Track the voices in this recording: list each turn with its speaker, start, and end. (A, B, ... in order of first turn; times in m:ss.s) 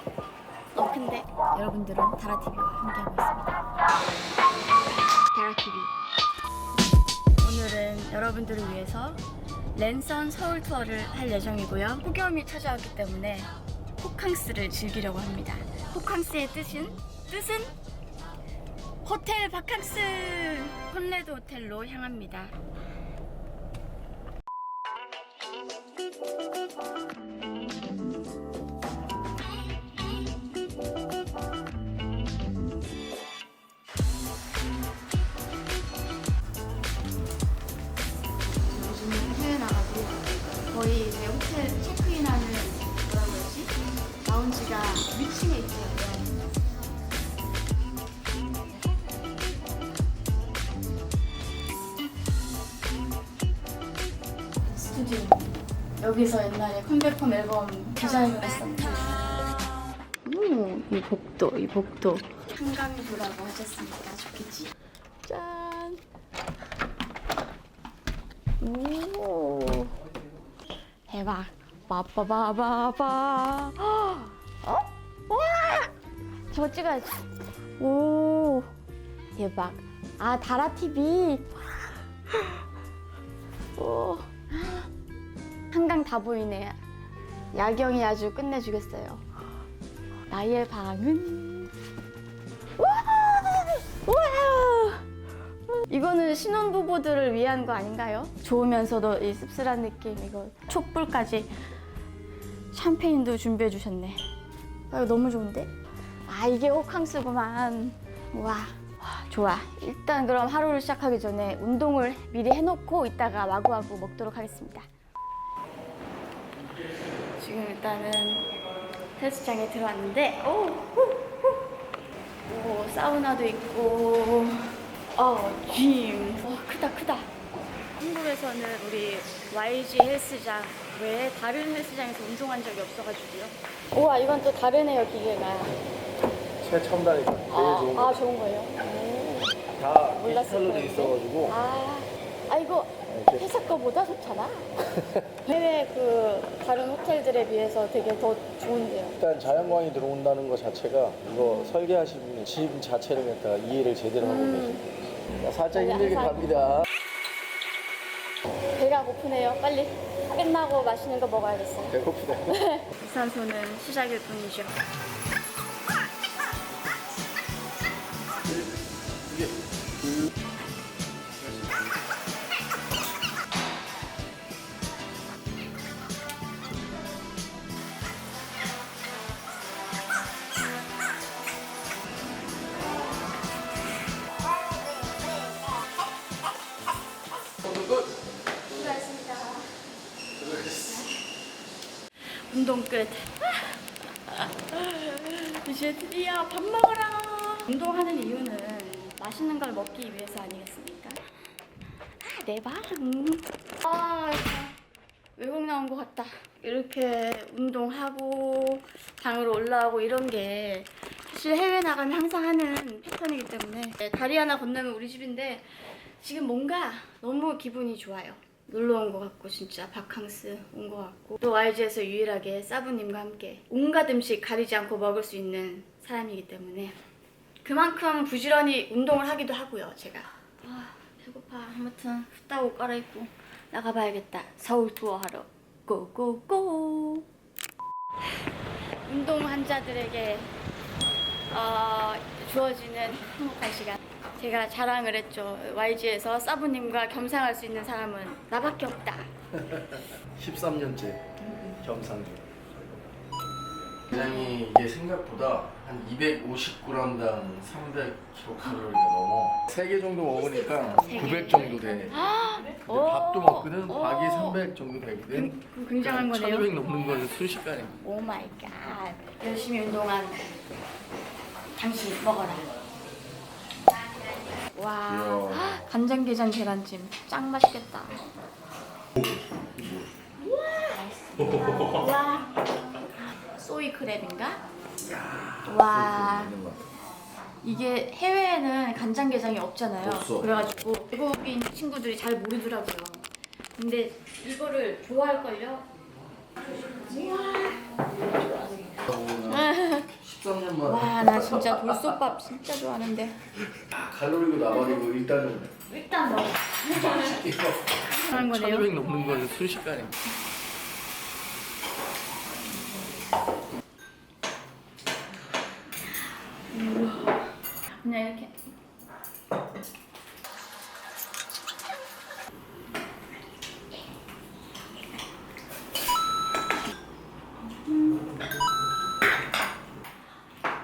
0:00.7-0:03.7 A
0:05.3-0:05.9 A
0:07.4-0:09.2 A
0:09.7-0:17.7 A
0:19.0-0:22.6 A
0:38.6-0:46.4 A
0:54.6-0:59.4 A
1:00.2-1:04.7 A
1:05.2-1:06.0 A
1:08.6-1:10.0 A
1:11.1-1:15.9 A
1:16.5-1:18.7 A
1:19.3-1:22.7 A
1:23.8-1:24.9 A
1:25.7-1:26.8 A
1:27.5-1:29.2 A
1:30.3-1:31.8 A
1:32.8-1:35.1 A
1:35.7-1:41.5 A
1:42.7-1:44.2 A
1:44.9-1:45.7 A
1:46.3-1:54.9 A
1:57.4-1:58.5 A
1:59.2-2:01.6 A
2:02.4-2:07.3 A
2:08.0-2:15.8 A
2:16.6-2:18.2 B
2:17.5-2:24.8 A
2:19.8-2:21.6 B
2:23.1-2:23.5 B
2:25.4-2:29.2 A
2:29.2-2:36.8 B
2:31.4-2:31.7 A
2:34.2-2:34.8 A
2:35.7-2:36.6 A
2:38.8-2:41.9 A
2:41.9-2:42.5 B
2:42.5-2:44.8 A
2:49.2-2:49.6 B
3:07.6-3:08.1 B
3:08.7-3:09.7 A
3:10.4-3:11.0 B
3:12.4-3:21.2 A
3:22.2-3:24.7 A
3:25.4-3:47.0 A
3:47.6-3:57.2 A
3:59.0-4:00.5 A
4:01.5-4:09.3 A
4:09.5-4:12.4 B
4:14.1-4:22.2 B
4:20.9-4:24.6 A
4:22.9-4:28.0 B
4:25.3-4:26.8 A
4:28.0-4:30.6 A
4:31.7-4:32.7 A
4:34.6-4:38.2 A
4:35.1-4:35.9 B
4:39.8-4:40.1 B
4:40.4-4:42.6 A
4:43.6-4:44.6 A
4:45.0-4:46.8 B
4:45.6-4:46.6 A
4:47.6-4:55.9 A
4:50.0-4:50.7 B
4:56.9-4:57.9 A
4:59.0-5:02.0 B
4:59.5-5:00.1 A
5:00.8-5:03.4 A
5:03.9-5:05.7 B
5:05.9-5:07.4 A
5:06.9-5:10.2 B
5:08.1-5:09.1 A
5:16.7-5:18.6 A
5:27.6-5:28.4 A